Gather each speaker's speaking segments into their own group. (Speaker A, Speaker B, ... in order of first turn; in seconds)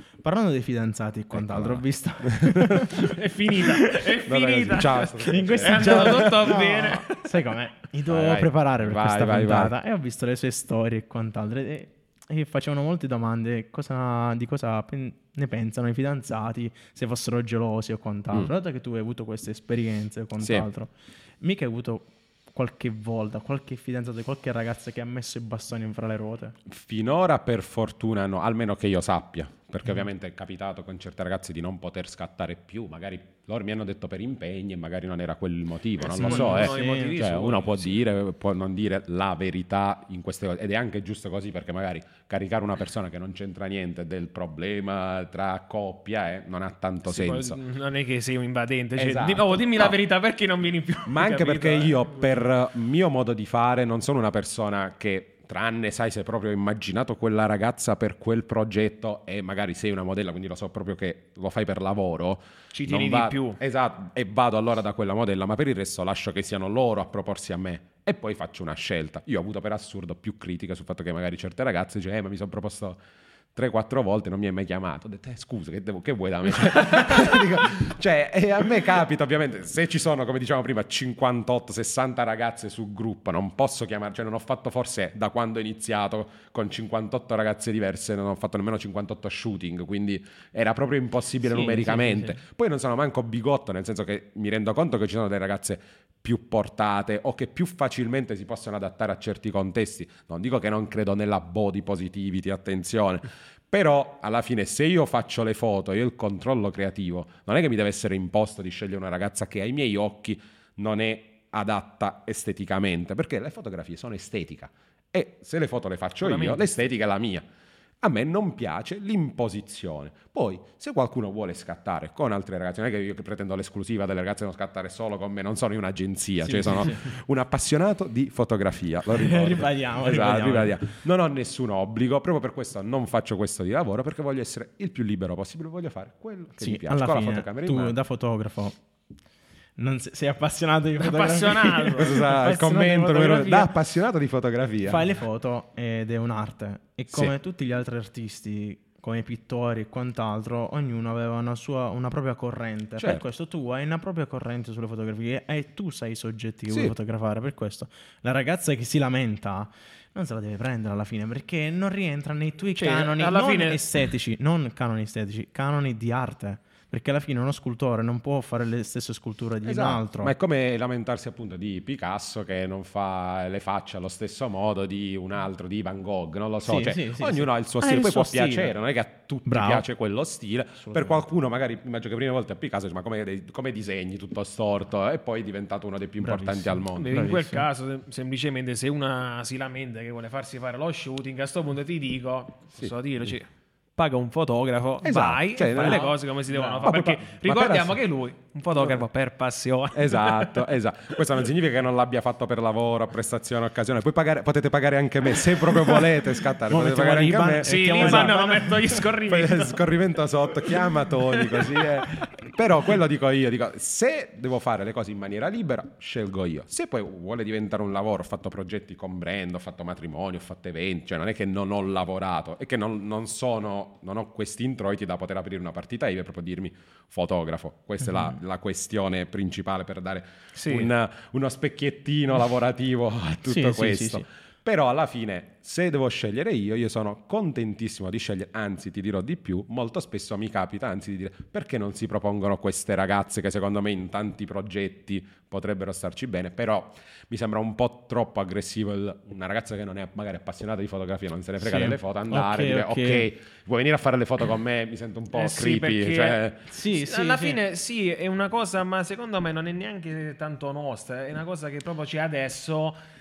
Speaker A: 0.2-3.1, 5.2-26.6, 36.2-37.2, 91.5-92.4, 126.5-127.0, 129.1-130.8, 136.6-138.8, 139.8-143.7, 144.9-170.3, 176.6-178.7, 179.5-179.9, 180.8-181.2, 186.2-187.7, 195.8-196.8, 206.7-208.9, 233.5-234.2, 251.6-253.3, 256.7-257.6
Speaker B: 1.3-3.1, 4.2-6.6, 8.1-9.8, 20.4-20.7, 26.7-47.6, 49.0-50.0, 51.1-73.0, 73.5-117.4, 118.0-138.0, 142.0-145.0, 156.7-156.9, 169.6-187.3, 192.8-193.3, 195.0-196.2, 196.8-198.0, 199.9-256.6
Speaker C: 3.0-7.4, 36.0-38.0, 47.1-52.1, 62.7-63.6, 116.2-116.7, 141.0-142.2, 162.8-163.8, 186.9-200.7, 207.6-209.9, 210.7-212.1, 230.6-230.9, 255.3-263.0